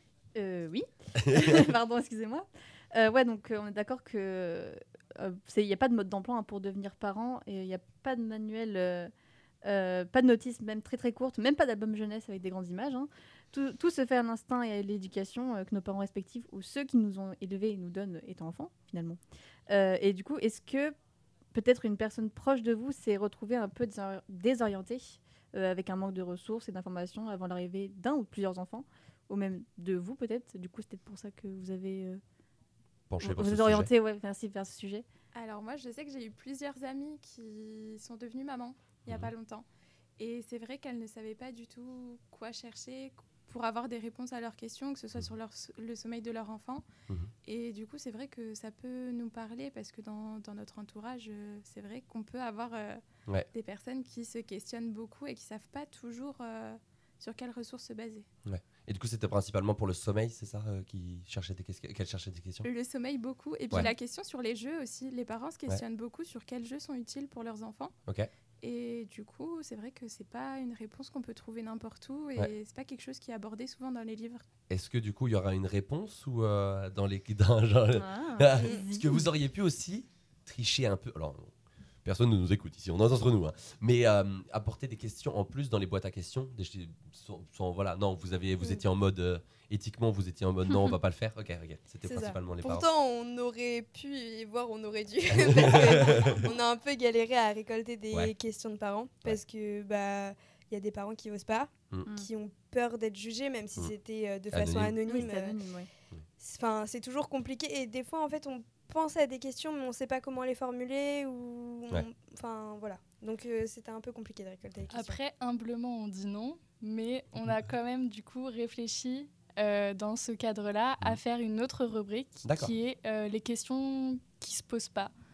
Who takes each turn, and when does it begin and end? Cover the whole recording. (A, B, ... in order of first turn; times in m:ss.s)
0:00.4-0:09.1 A
0:01.2-0:01.7 B
0:09.6-0:19.2 A
0:19.7-0:21.0 A
0:21.5-0:32.2 A
0:33.1-0:33.9 B
0:33.2-0:35.0 A
0:35.3-0:39.7 C
0:39.1-0:39.3 B
0:40.2-0:46.8 C
0:47.4-0:53.0 C
0:53.5-0:58.3 C
0:58.4-1:02.7 B
1:02.6-1:07.9 C
1:08.6-1:14.4 C
1:14.7-1:21.5 B
1:17.9-1:19.2 A
1:22.0-1:32.9 B
1:32.0-1:45.6 D
1:35.4-1:36.3 B
1:44.5-1:45.0 B
1:45.1-1:45.9 A
1:46.4-1:55.2 D
1:54.9-2:05.1 E
2:02.4-2:02.7 B